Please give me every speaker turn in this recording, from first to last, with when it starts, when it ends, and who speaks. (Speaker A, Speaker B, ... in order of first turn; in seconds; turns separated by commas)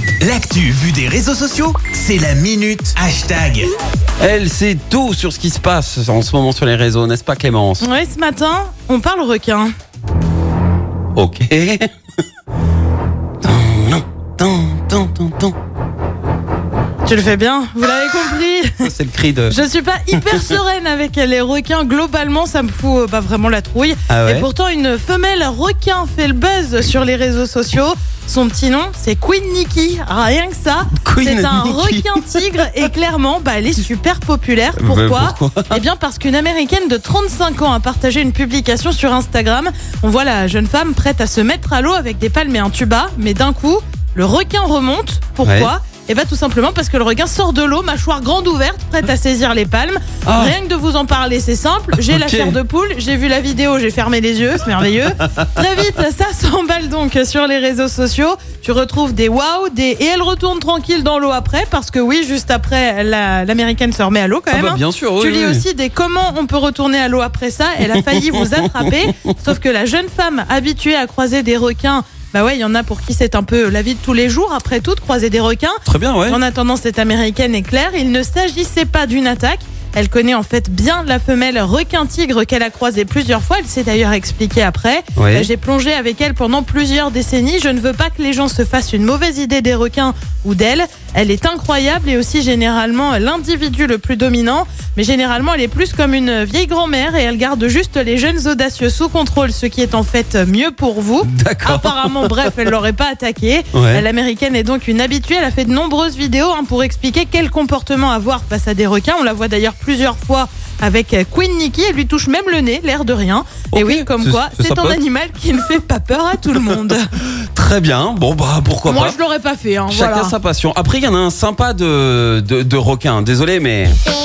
Speaker A: 0.2-3.7, Speaker B: 4.2-7.9, Speaker C: 7.8-9.7, Speaker B: 11.2-11.9, Speaker B: 13.4-15.6, Speaker C: 17.1-18.8, Speaker B: 18.8-19.6, Speaker C: 19.5-117.1, Speaker B: 20.1-20.5, Speaker B: 24.1-24.5, Speaker B: 30.9-32.9, Speaker B: 34.8-35.8, Speaker B: 45.4-45.7, Speaker B: 50.2-50.5, Speaker B: 52.0-52.6, Speaker B: 55.2-55.8, Speaker B: 64.5-65.6, Speaker B: 67.8-69.4, Speaker B: 75.9-76.4, Speaker B: 85.2-85.5, Speaker B: 101.2-102.5, Speaker B: 103.7-104.0, Speaker B: 113.7-115.0, Speaker B: 117.2-119.2, Speaker C: 118.9-120.3, Speaker B: 119.9-124.0